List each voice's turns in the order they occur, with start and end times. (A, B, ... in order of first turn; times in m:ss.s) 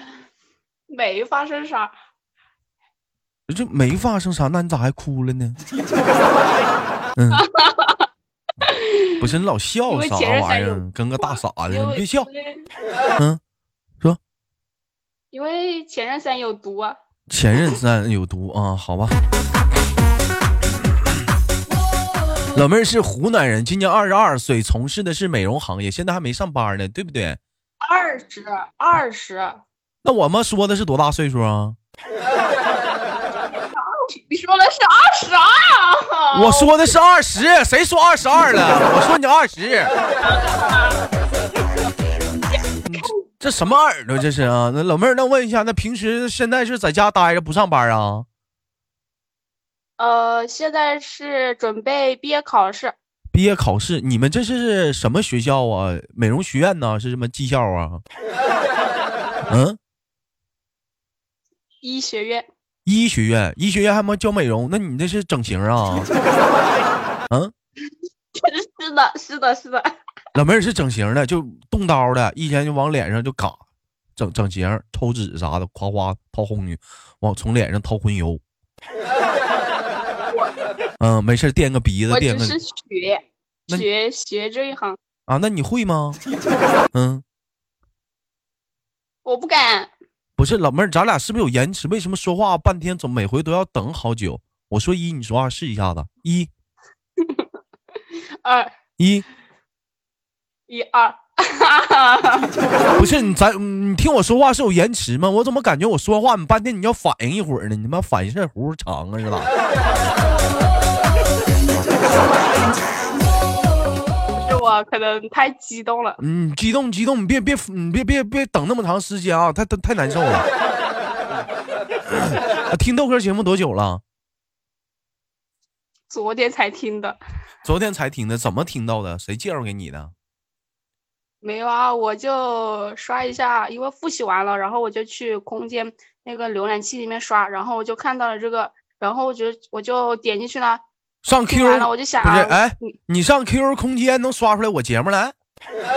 0:00.9-0:01.9 A
0:03.5-0:05.6 B
0:07.2-0:07.4 B
0:07.3-0:08.1 A
0:08.6-0:09.2 A
0:09.2-0:12.3 B
0:09.9-0:12.6 A
0:15.3-0:17.0 A
0:17.3-0:19.2 B
0:22.5-0:27.4 B
0:27.8-0:29.6 A
0:30.0-0:31.8 B
0:33.8-0:36.7 A
0:36.3-0:39.9 B
0:40.2-0:41.0 A
0:42.5-0:43.2 A
0:42.8-0:48.3 B
0:50.0-0:52.9 A
0:53.3-0:58.0 B
0:59.5-0:59.8 B
1:01.8-1:02.5 A
1:02.8-1:06.1 B
1:08.4-1:09.9 A
1:10.3-1:13.6 B
1:14.2-1:18.4 B
1:21.0-1:22.6 B
1:22.1-1:25.0 A
1:25.3-1:26.2 B
1:26.9-1:27.2 B
1:29.2-1:29.9 A
1:30.4-1:36.5 B
1:37.2-1:37.5 A
1:38.4-1:38.7 A
1:39.0-1:39.2 B
1:40.7-1:43.1 A
1:43.0-1:49.5 B
1:54.4-1:56.2 A
1:56.2-2:00.5 B
2:02.0-2:04.0 B
2:06.1-2:07.2 A
2:07.6-2:10.1 B
2:11.4-2:20.8 A
2:21.2-2:25.3 B
2:21.5-2:22.9 A